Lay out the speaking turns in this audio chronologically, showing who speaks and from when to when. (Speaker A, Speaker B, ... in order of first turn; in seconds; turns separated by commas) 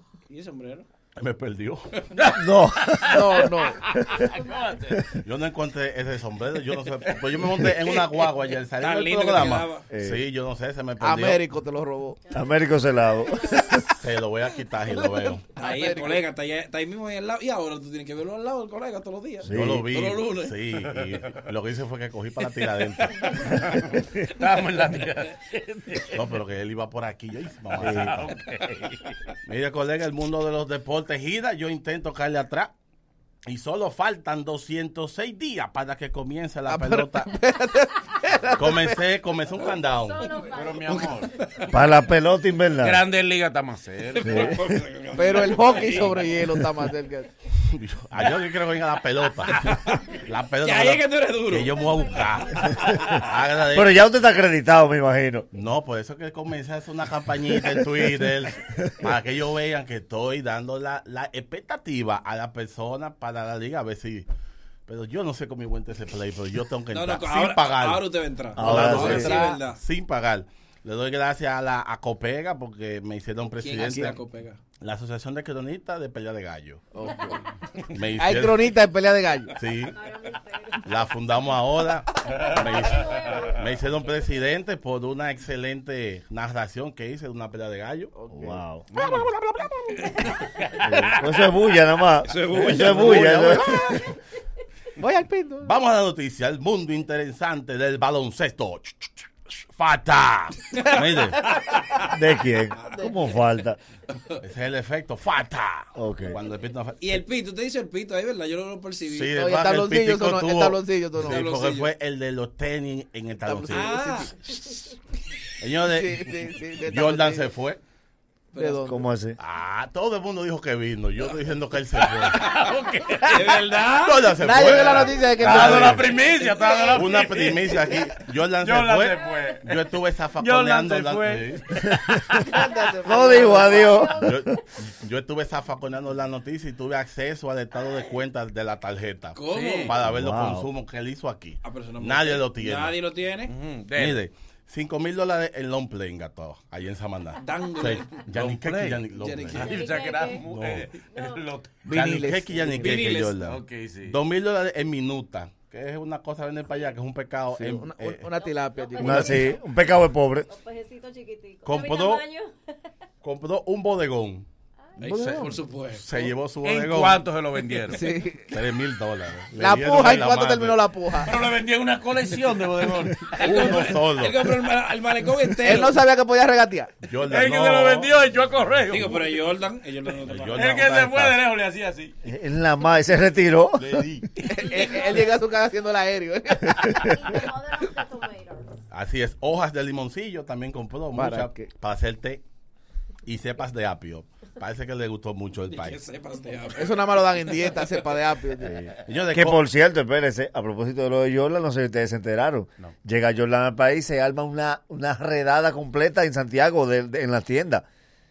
Speaker A: 0.3-0.8, Speaker B: 1.2-1.9, Speaker C: 2.1-5.2, Speaker D: 2.4-3.5, Speaker E: 3.0-3.8, Speaker B: 5.2-11.5, Speaker A: 8.7-9.9, Speaker D: 9.9-10.2, Speaker E: 11.0-12.2, Speaker D: 12.3-13.9, Speaker F: 13.5-13.8, Speaker B: 14.0-15.5, Speaker E: 14.9-16.2, Speaker A: 15.6-20.6, Speaker D: 19.4-19.9, Speaker B: 19.5-23.5, Speaker C: 20.8-21.4, Speaker C: 23.4-26.2, Speaker B: 26.1-28.2, Speaker C: 27.7-29.2, Speaker D: 27.8-28.2, Speaker B: 29.4-32.7, Speaker B: 33.5-37.3, Speaker E: 36.6-39.0, Speaker B: 38.5-40.4, Speaker F: 39.7-41.3, Speaker C: 40.4-41.3, Speaker A: 40.9-41.7, Speaker D: 41.7-43.0, Speaker C: 42.8-44.5, Speaker D: 44.2-44.7, Speaker A: 44.2-46.5, Speaker E: 45.1-47.3, Speaker B: 47.6-54.0, Speaker A: 49.5-50.1, Speaker A: 50.6-51.9, Speaker F: 51.6-53.2, Speaker D: 53.7-55.5, Speaker B: 55.5-64.3, Speaker D: 58.6-59.1, Speaker B: 64.8-68.0, Speaker A: 66.9-69.8, Speaker D: 68.5-69.5, Speaker B: 68.6-74.2, Speaker A: 73.6-74.6, Speaker B: 74.8-76.8, Speaker E: 76.9-77.4, Speaker F: 77.1-77.4, Speaker B: 77.9-78.8, Speaker E: 78.1-79.6, Speaker B: 79.6-80.0, Speaker F: 79.8-81.6, Speaker B: 80.8-88.1, Speaker C: 82.3-83.6, Speaker F: 82.3-84.0, Speaker E: 88.1-88.6, Speaker D: 88.3-88.8, Speaker C: 88.9-89.3, Speaker B: 89.0-89.8, Speaker C: 90.4-91.0, Speaker D: 90.8-94.1, Speaker A: 92.2-94.0, Speaker B: 92.8-93.8, Speaker E: 95.0-95.7, Speaker B: 95.6-101.5, Speaker A: 100.7-101.0, Speaker A: 101.6-102.0, Speaker D: 102.1-103.8, Speaker A: 102.8-103.1, Speaker A: 104.1-104.4, Speaker B: 104.4-107.2, Speaker D: 106.0-106.3, Speaker A: 107.0-109.4, Speaker B: 109.0-114.0, Speaker E: 109.3-111.5, Speaker A: 111.2-111.9, Speaker E: 113.4-114.3, Speaker A: 113.7-114.8, Speaker B: 115.6-117.8, Speaker E: 115.9-117.5, Speaker A: 118.5-118.9, Speaker E: 118.5-119.0, Speaker D: 118.8-119.4, Speaker B: 119.4-122.4, Speaker C: 122.0-123.4, Speaker A: 123.2-125.1, Speaker B: 123.9-126.1, Speaker E: 124.4-126.0, Speaker F: 125.1-125.4, Speaker C: 125.4-127.9, Speaker F: 125.9-128.2, Speaker B: 126.8-131.8, Speaker C: 128.6-129.8, Speaker C: 130.3-133.0, Speaker D: 131.8-132.4, Speaker F: 132.4-134.4, Speaker E: 132.4-133.9, Speaker D: 133.0-134.6, Speaker B: 133.8-142.9, Speaker A: 139.3-139.9, Speaker C: 139.5-140.0, Speaker D: 140.0-140.7, Speaker A: 141.6-143.5, Speaker C: 143.5-144.2, Speaker B: 143.9-149.8, Speaker A: 147.4-148.2, Speaker C: 148.3-151.7, Speaker A: 149.2-149.8, Speaker F: 149.7-150.5, Speaker B: 150.4-150.9, Speaker F: 151.0-151.4, Speaker E: 151.8-153.1, Speaker B: 151.9-158.3, Speaker A: 152.8-153.4, Speaker C: 153.4-154.2, Speaker E: 157.5-159.3, Speaker F: 158.3-159.7, Speaker D: 159.0-160.5, Speaker B: 159.2-159.5, Speaker F: 160.5-162.5, Speaker B: 161.6-162.2, Speaker B: 163.2-164.5, Speaker A: 165.0-166.3, Speaker B: 165.9-167.2, Speaker C: 166.6-168.2, Speaker E: 167.9-168.5, Speaker B: 168.5-170.9, Speaker E: 169.6-171.3, Speaker C: 171.2-173.9, Speaker A: 173.3-176.0, Speaker B: 173.4-174.4, Speaker E: 175.6-176.9, Speaker B: 177.0-178.1, Speaker C: 177.2-179.4, Speaker A: 178.9-180.9, Speaker B: 180.2-181.4, Speaker C: 180.5-182.2, Speaker D: 182.2-184.0, Speaker C: 183.8-185.3, Speaker E: 184.5-187.1, Speaker F: 184.5-185.4, Speaker F: 187.0-188.8, Speaker B: 188.9-192.4, Speaker E: 191.1-191.7, Speaker B: 193.2-196.0, Speaker A: 195.7-198.0, Speaker E: 196.8-198.8, Speaker D: 198.6-207.8, Speaker B: 199.0-199.6